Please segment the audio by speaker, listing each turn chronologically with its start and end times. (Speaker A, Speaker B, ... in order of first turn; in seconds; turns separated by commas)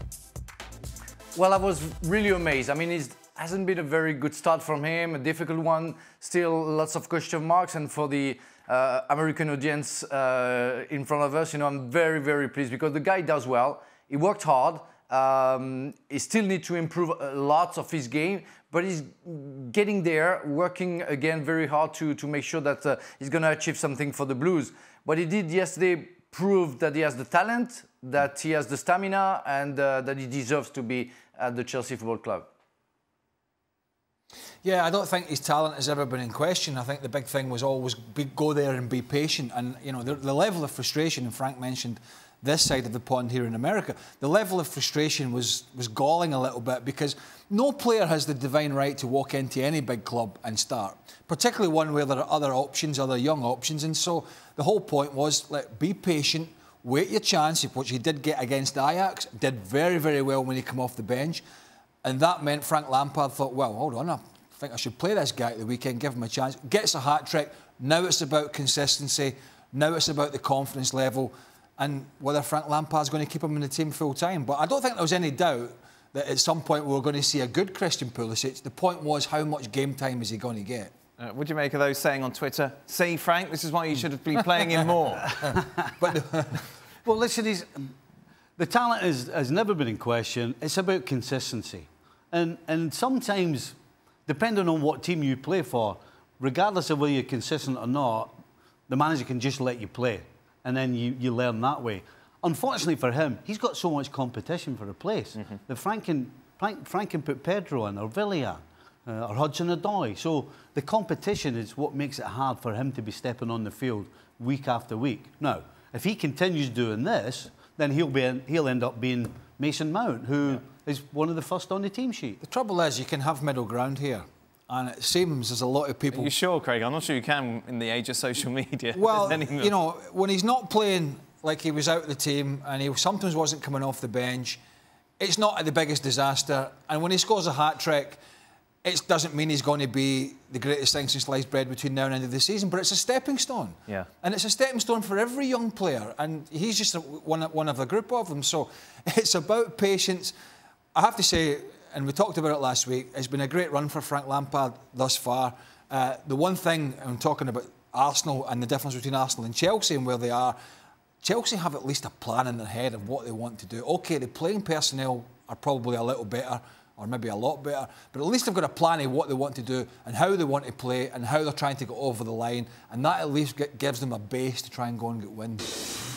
Speaker A: 1.4-32.5, Speaker B: 34.6-61.4, Speaker B: 62.0-80.9, Speaker C: 81.2-85.5, Speaker B: 86.1-86.5, Speaker D: 87.0-87.9, Speaker D: 88.6-93.8, Speaker D: 94.3-98.3, Speaker D: 98.9-122.4, Speaker B: 122.4-126.3, Speaker C: 126.1-129.7, Speaker B: 128.9-134.6, Speaker B: 135.2-138.2, Speaker B: 138.8-150.3, Speaker B: 150.9-160.6, Speaker B: 161.2-175.8